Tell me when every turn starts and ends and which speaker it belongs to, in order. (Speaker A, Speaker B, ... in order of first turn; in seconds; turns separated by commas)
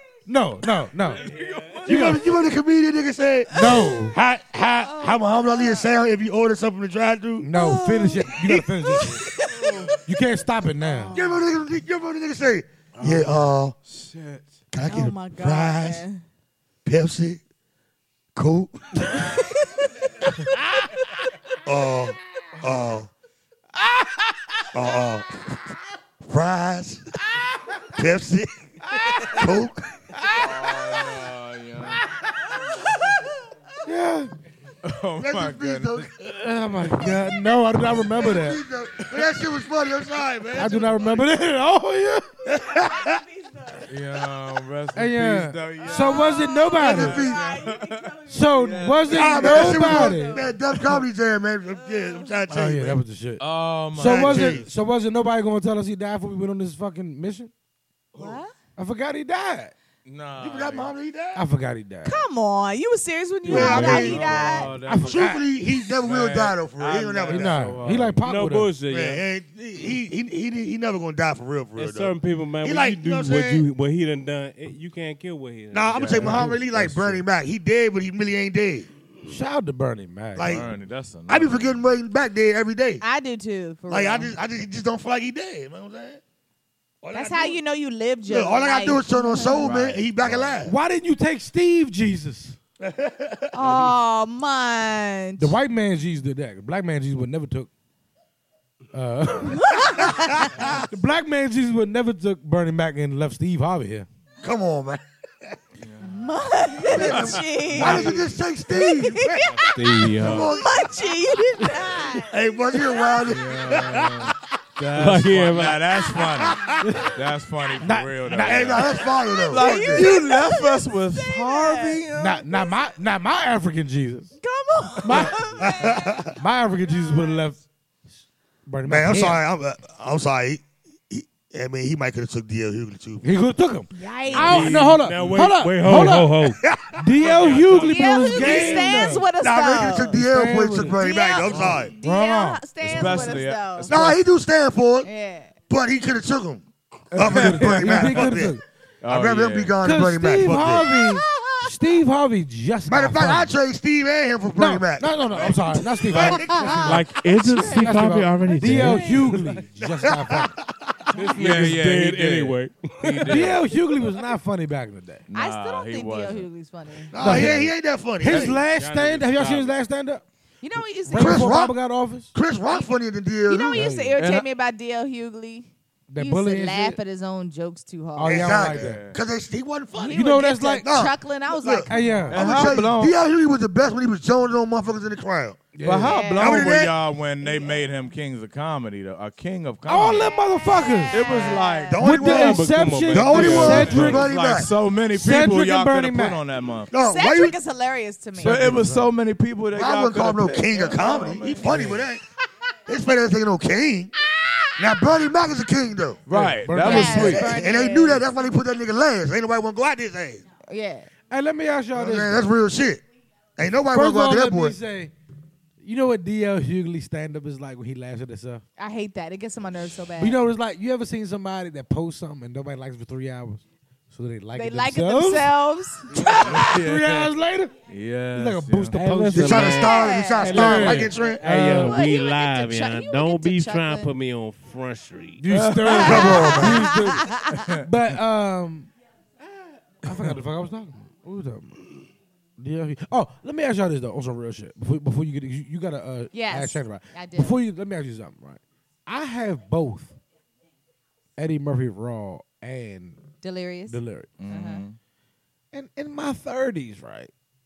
Speaker A: 0.3-1.3, Speaker B: 1.1-2.2, Speaker C: 1.2-1.9, Speaker D: 1.9-7.5, Speaker A: 1.9-2.2, Speaker A: 3.5-4.2, Speaker E: 4.8-5.8, Speaker A: 7.4-9.2, Speaker E: 7.5-9.8, Speaker D: 8.4-9.9, Speaker B: 9.5-10.0, Speaker A: 10.1-11.2, Speaker B: 10.8-11.2, Speaker D: 11.1-13.7, Speaker B: 13.0-13.3, Speaker B: 13.8-14.6, Speaker D: 14.7-16.0, Speaker E: 14.8-16.2, Speaker D: 16.8-17.4, Speaker D: 18.4-19.2, Speaker E: 19.2-20.0, Speaker D: 21.6-23.1, Speaker A: 23.8-24.2, Speaker D: 24.7-27.0, Speaker D: 27.9-28.5, Speaker A: 28.9-29.4, Speaker D: 29.2-29.9, Speaker A: 30.2-31.0, Speaker B: 30.3-32.0, Speaker A: 33.8-34.3, Speaker B: 34.8-36.1, Speaker D: 35.2-36.2, Speaker A: 36.2-38.7, Speaker D: 38.2-41.0, Speaker A: 40.5-42.4, Speaker D: 42.5-43.2, Speaker E: 42.6-43.9, Speaker B: 43.9-50.1, Speaker A: 44.9-47.3, Speaker E: 45.8-50.5, Speaker D: 46.8-47.4, Speaker A: 48.3-50.5, Speaker D: 49.1-53.0, Speaker E: 51.7-52.4, Speaker A: 52.5-53.4, Speaker B: 53.4-54.6, Speaker A: 53.9-57.5, Speaker D: 54.0-54.7, Speaker E: 58.1-58.5, Speaker A: 58.8-59.7, Speaker B: 60.0-60.9, Speaker D: 60.4-61.4, Speaker A: 61.3-62.2, Speaker E: 62.0-64.7, Speaker B: 63.5-65.3, Speaker D: 63.5-67.8, Speaker A: 63.5-65.4, Speaker B: 66.0-68.2, Speaker A: 67.3-68.7, Speaker C: 68.2-69.2, Speaker D: 68.9-73.7, Speaker C: 71.7-76.4, Speaker D: 75.7-78.9, Speaker B: 76.0-76.4, Speaker A: 76.2-77.2, Speaker A: 79.2-80.7, Speaker D: 80.3-80.7, Speaker B: 80.4-81.8, Speaker D: 81.3-83.0, Speaker E: 83.0-84.3, Speaker D: 83.9-86.2, Speaker D: 87.0-87.6, Speaker E: 87.1-89.7, Speaker D: 88.2-90.7, Speaker B: 89.5-90.6, Speaker A: 90.6-92.6, Speaker D: 92.8-93.5, Speaker E: 93.5-95.5, Speaker A: 95.4-97.7, Speaker A: 98.9-100.0, Speaker E: 99.4-100.7, Speaker A: 100.6-104.1, Speaker D: 104.4-105.6, Speaker B: 105.8-106.1, Speaker E: 106.0-109.6, Speaker D: 106.8-110.9, Speaker B: 106.9-108.2, Speaker A: 107.8-108.1, Speaker C: 109.4-110.5, Speaker E: 110.5-113.3, Speaker D: 112.3-114.4, Speaker B: 113.2-122.5, Speaker C: 114.8-115.9, Speaker D: 116.1-116.8, Speaker E: 116.2-116.4, Speaker A: 116.8-117.2, Speaker A: 117.8-118.9, Speaker D: 118.3-120.1, Speaker E: 119.5-122.0, Speaker A: 122.1-124.3, Speaker E: 124.4-126.2, Speaker A: 125.0-125.5, Speaker D: 125.6-126.4, Speaker A: 126.3-127.7, Speaker E: 127.0-127.3, Speaker A: 128.7-129.4, Speaker D: 128.8-133.2, Speaker A: 133.2-141.0, Speaker E: 133.9-134.8, Speaker B: 134.3-136.1, Speaker C: 134.4-136.6, Speaker D: 136.6-137.1, Speaker C: 137.2-139.0, Speaker B: 137.3-137.8, Speaker E: 137.7-140.1, Speaker D: 139.2-141.9, Speaker E: 141.0-144.1, Speaker A: 141.5-143.2, Speaker B: 142.8-144.2, Speaker D: 143.8-145.1, Speaker E: 145.0-145.5, Speaker D: 145.7-148.5, Speaker B: 147.1-148.4, Speaker A: 147.2-148.6, Speaker B: 149.0-149.8, Speaker D: 149.1-150.9, Speaker A: 149.8-153.5, Speaker D: 152.9-157.1, Speaker A: 154.5-160.6, Speaker B: 155.3-156.7, Speaker E: 156.2-156.8, Speaker C: 156.8-159.6, Speaker E: 158.7-159.2, Speaker D: 159.8-161.0, Speaker C: 161.1-163.5, Speaker B: 161.3-163.7, Speaker A: 161.5-161.8, Speaker A: 163.2-165.2, Speaker B: 165.3-166.5, Speaker E: 165.3-167.1, Speaker B: 167.1-167.7, Speaker D: 167.1-168.6, Speaker A: 167.2-170.2, Speaker B: 168.2-168.6, Speaker C: 168.7-169.7, Speaker E: 170.6-171.5, Speaker A: 171.1-172.3, Speaker D: 171.1-173.9, Speaker E: 173.5-178.7, Speaker A: 173.7-174.2, Speaker B: 174.2-174.4, Speaker A: 176.1-177.0, Speaker A: 178.1-179.1, Speaker D: 178.2-180.2, Speaker B: 178.6-179.2, Speaker E: 179.9-182.3, Speaker A: 180.1-180.8, Speaker D: 180.8-185.7, Speaker A: 181.9-182.7, Speaker B: 182.3-183.1, Speaker A: 185.7-186.4, Speaker B: 185.8-190.3, Speaker E: 186.0-186.7, Speaker D: 186.4-186.9, Speaker A: 189.8-191.2, Speaker E: 190.2-192.0, Speaker B: 191.1-192.3, Speaker D: 191.9-194.7, Speaker A: 192.0-194.3, Speaker C: 192.2-194.2, Speaker B: 193.3-196.9, Speaker A: 195.1-196.4, Speaker D: 196.9-197.6, Speaker E: 196.9-198.6, Speaker A: 198.4-199.1, Speaker B: 198.4-202.1, Speaker D: 199.7-202.2, Speaker D: 202.8-204.1, Speaker E: 204.2-204.9, Speaker D: 204.8-206.2, Speaker B: 206.3-207.7, Speaker A: 206.3-207.5, Speaker E: 206.7-208.2, Speaker D: 206.9-210.4, Speaker E: 210.6-211.1, Speaker A: 211.3-212.5, Speaker D: 211.9-213.0, Speaker D: 213.6-214.8, Speaker A: 213.9-215.1, Speaker A: 215.8-218.6, Speaker E: 218.8-220.4, Speaker A: 220.2-225.5, Speaker E: 224.5-226.7, Speaker A: 226.2-232.1, Speaker B: 226.4-227.3, Speaker B: 227.8-228.9, Speaker C: 228.9-235.5, Speaker D: 229.3-231.4, Speaker E: 229.6-230.6, Speaker E: 231.5-234.1, Speaker A: 235.4-238.9, Speaker B: 235.5-236.6, Speaker E: 235.9-237.7, Speaker D: 236.0-236.9, Speaker B: 237.4-237.8, Speaker A: 240.0-241.9, Speaker A: 242.6-250.2, Speaker E: 246.3-247.6, Speaker A: 251.4-253.2, Speaker E: 253.4-254.8, Speaker A: 253.9-254.3, Speaker B: 254.4-255.0, Speaker A: 255.7-257.3